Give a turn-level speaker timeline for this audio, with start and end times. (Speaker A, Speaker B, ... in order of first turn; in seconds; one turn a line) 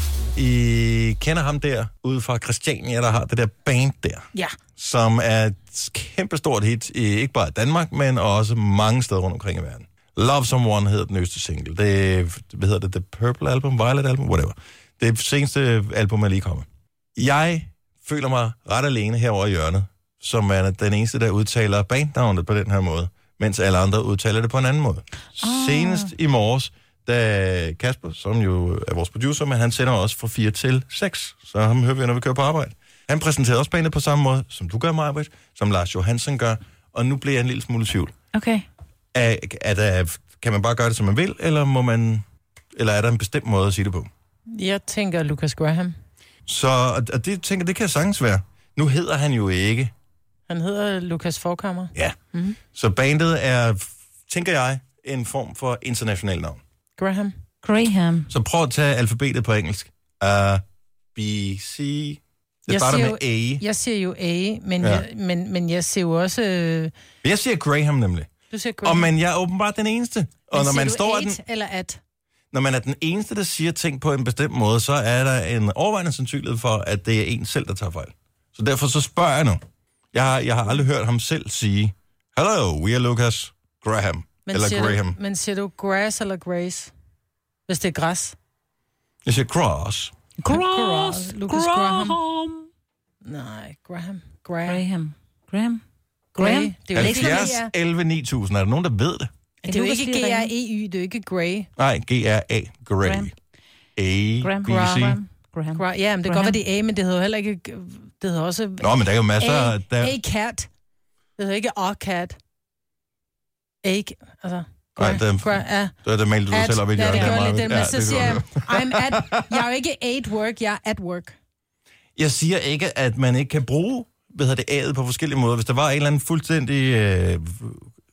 Speaker A: 0.3-4.2
Speaker A: 4.8-38.1
Speaker B: 25.4-26.1
Speaker B: 38.3-38.6
Speaker A: 39.1-42.2
Speaker A: 42.7-44.1
Speaker C: 44.5-45.9
Speaker A: 46.5-49.9
Speaker C: 50.5-52.6
Speaker A: 52.7-56.6
Speaker C: 57.0-57.4
Speaker B: 57.6-58.3
Speaker A: 58.3-60.6
Speaker A: 61.1-63.6
Speaker C: 62.7-66.9
Speaker A: 64.8-65.0
Speaker A: 67.2-68.3
Speaker C: 68.5-69.1
Speaker A: 68.8-71.4
Speaker C: 70.5-72.0
Speaker A: 72.5-79.6
Speaker A: 80.1-85.2
Speaker C: 84.5-86.9
Speaker C: 87.7-88.4
Speaker A: 89.2-90.1
Speaker B: 90.4-92.7
Speaker C: 90.5-92.2
Speaker C: 93.2-94.8
Speaker B: 94.6-95.8
Speaker C: 96.3-97.7
Speaker B: 96.4-97.5
Speaker A: 96.9-99.3
Speaker B: 99.6-100.5
Speaker C: 99.7-101.7
Speaker A: 101.8-103.3
Speaker B: 103.0-103.3
Speaker A: 104.0-105.2
Speaker B: 104.4-106.6
Speaker C: 105.8-110.7
Speaker A: 108.8-110.2
Speaker C: 111.4-112.4
Speaker C: 113.8-115.9
Speaker A: 115.0-119.1
Speaker C: 116.5-121.3
Speaker A: 122.2-127.8